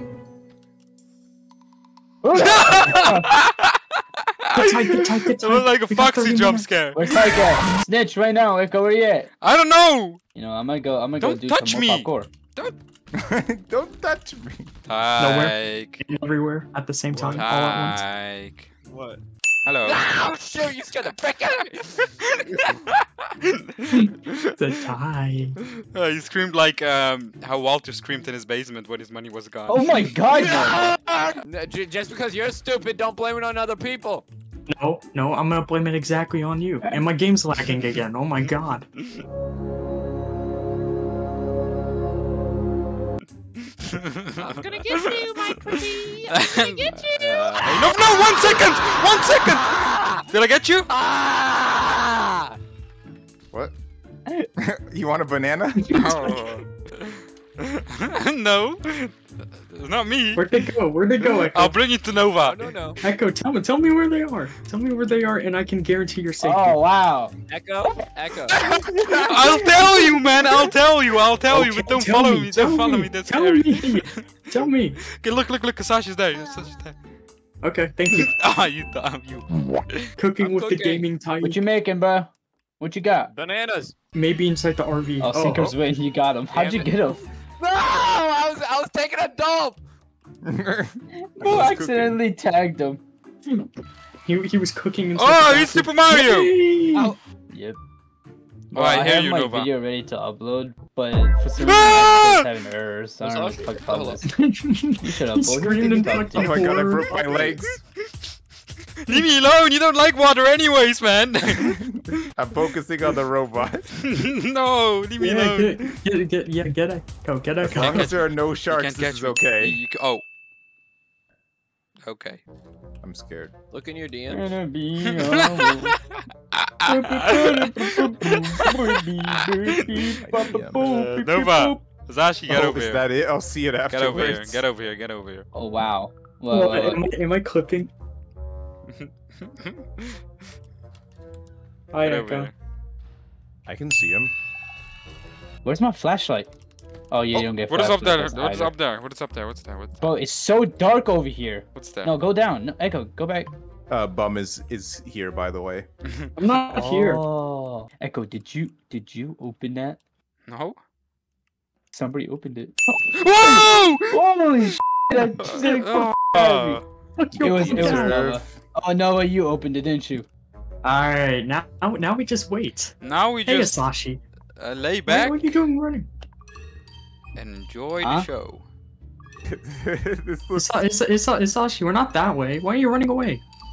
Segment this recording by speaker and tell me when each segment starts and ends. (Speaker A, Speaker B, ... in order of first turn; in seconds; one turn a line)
Speaker A: 2.2-3.3
Speaker B: 2.3-7.4
Speaker C: 4.5-6.7
Speaker A: 6.9-9.3
Speaker B: 9.4-10.2
Speaker A: 10.3-12.3
Speaker B: 11.2-12.8
Speaker D: 13.1-14.7
Speaker B: 14.8-16.0
Speaker C: 15.2-18.0
Speaker B: 17.2-18.7
Speaker E: 18.9-19.2
Speaker B: 19.6-20.1
Speaker E: 19.8-22.8
Speaker B: 22.0-24.5
Speaker C: 23.9-25.6
Speaker B: 25.8-30.1
Speaker A: 29.7-30.8
Speaker E: 30.5-34.2
Speaker C: 34.7-38.9
Speaker B: 43.7-50.9
Speaker E: 44.4-45.2
Speaker A: 46.9-47.6
Speaker E: 47.2-50.2
Speaker E: 50.9-52.6
Speaker D: 54.5-56.1
Speaker C: 55.8-56.5
Speaker B: 55.9-60.6
Speaker C: 60.4-61.8
Speaker B: 61.2-62.7
Speaker E: 62.4-63.0
Speaker C: 63.0-66.8
Speaker A: 66.4-67.3
Speaker E: 67.5-68.7
Speaker B: 68.5-74.2
Speaker D: 69.0-69.7
Speaker C: 71.5-75.0
Speaker B: 75.0-77.0
Speaker C: 77.6-78.3
Speaker B: 78.1-80.1
Speaker C: 80.2-81.6
Speaker E: 80.4-81.0
Speaker A: 81.4-83.3
Speaker E: 83.3-83.9
Speaker C: 84.1-85.7
Speaker A: 85.2-87.2
Speaker E: 86.5-89.8
Speaker D: 90.4-92.2
Speaker A: 91.3-93.0
Speaker C: 94.2-97.2
Speaker B: 95.1-96.5
Speaker E: 96.9-97.2
Speaker A: 97.5-97.8
Speaker B: 98.7-99.7
Speaker A: 98.7-104.4
Speaker B: 101.6-102.5
Speaker E: 103.2-104.2
Speaker C: 104.3-107.5
Speaker A: 105.0-106.7
Speaker D: 106.3-107.8
Speaker B: 107.2-108.2
Speaker B: 109.0-111.8
Speaker D: 111.5-113.9
Speaker B: 114.0-116.0
Speaker C: 115.2-118.2
Speaker D: 117.6-119.8
Speaker B: 117.7-120.2
Speaker B: 122.0-122.4
Speaker D: 123.0-123.5
Speaker E: 123.7-124.5
Speaker A: 124.3-126.0
Speaker B: 125.2-125.9
Speaker B: 126.5-129.0
Speaker C: 126.9-127.6
Speaker A: 126.9-131.8
Speaker B: 129.7-130.2
Speaker D: 130.2-130.8
Speaker B: 130.8-133.1
Speaker D: 132.5-134.6
Speaker B: 133.9-135.4
Speaker A: 135.5-137.0
Speaker C: 136.5-137.9
Speaker B: 138.9-140.2
Speaker C: 141.9-142.5
Speaker B: 141.9-142.5
Speaker D: 143.7-144.3
Speaker A: 145.6-146.5
Speaker A: 147.1-148.7
Speaker B: 147.3-150.1
Speaker A: 150.0-153.5
Speaker B: 151.8-152.1
Speaker D: 153.9-155.9
Speaker B: 156.1-156.3
Speaker C: 156.4-157.2
Speaker A: 156.7-160.0
Speaker B: 160.5-160.8
Speaker A: 161.9-162.8
Speaker B: 163.1-164.2
Speaker A: 163.4-166.8
Speaker B: 165.1-166.8
Speaker C: 165.2-166.1
Speaker C: 167.2-168.2
Speaker D: 167.4-168.5
Speaker A: 167.4-170.2
Speaker C: 170.8-172.9
Speaker B: 173.0-173.8
Speaker C: 173.4-174.2
Speaker B: 174.6-175.6
Speaker C: 175.1-176.1
Speaker B: 177.3-178.7
Speaker A: 178.0-178.3
Speaker D: 179.5-180.8
Speaker C: 180.6-183.4